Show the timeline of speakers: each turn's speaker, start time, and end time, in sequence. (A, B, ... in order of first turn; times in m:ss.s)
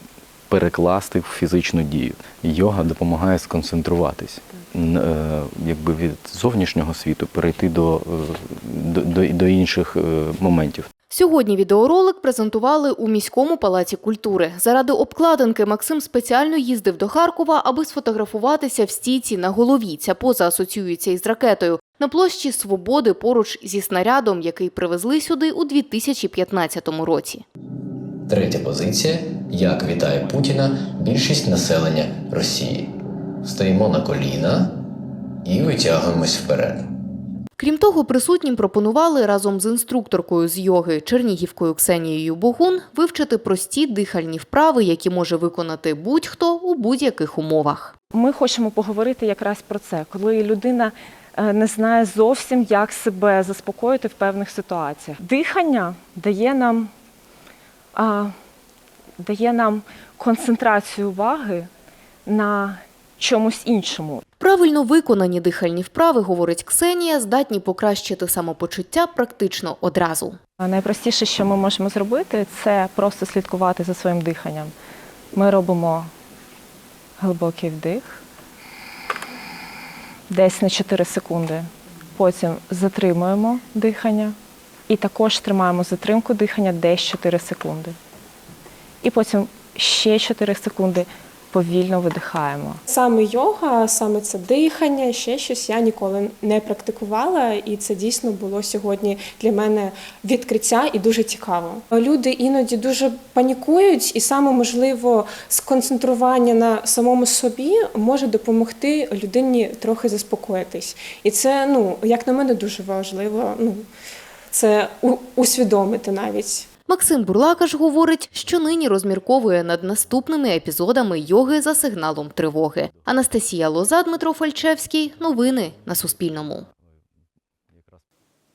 0:00.5-0:10.9 A
0:11.1-0:27.4 B
0:28.3-0:32.9 C
0:33.4-0:34.7 C
0:35.4-0:36.8 C
0:37.6-0:47.9 B
0:48.1-0:56.9 D
0:57.9-0:58.3 D
0:59.2-1:01.7 D
1:02.2-1:04.2 D
1:04.4-1:10.4 B
1:10.6-1:14.7 D
1:15.3-1:16.1 D
1:17.2-1:18.2 D
1:20.3-1:24.3 D
1:24.9-1:27.9 D
1:29.0-1:32.8 D
1:32.9-1:53.8 E
1:54.5-1:56.7 E
1:56.9-2:06.7 B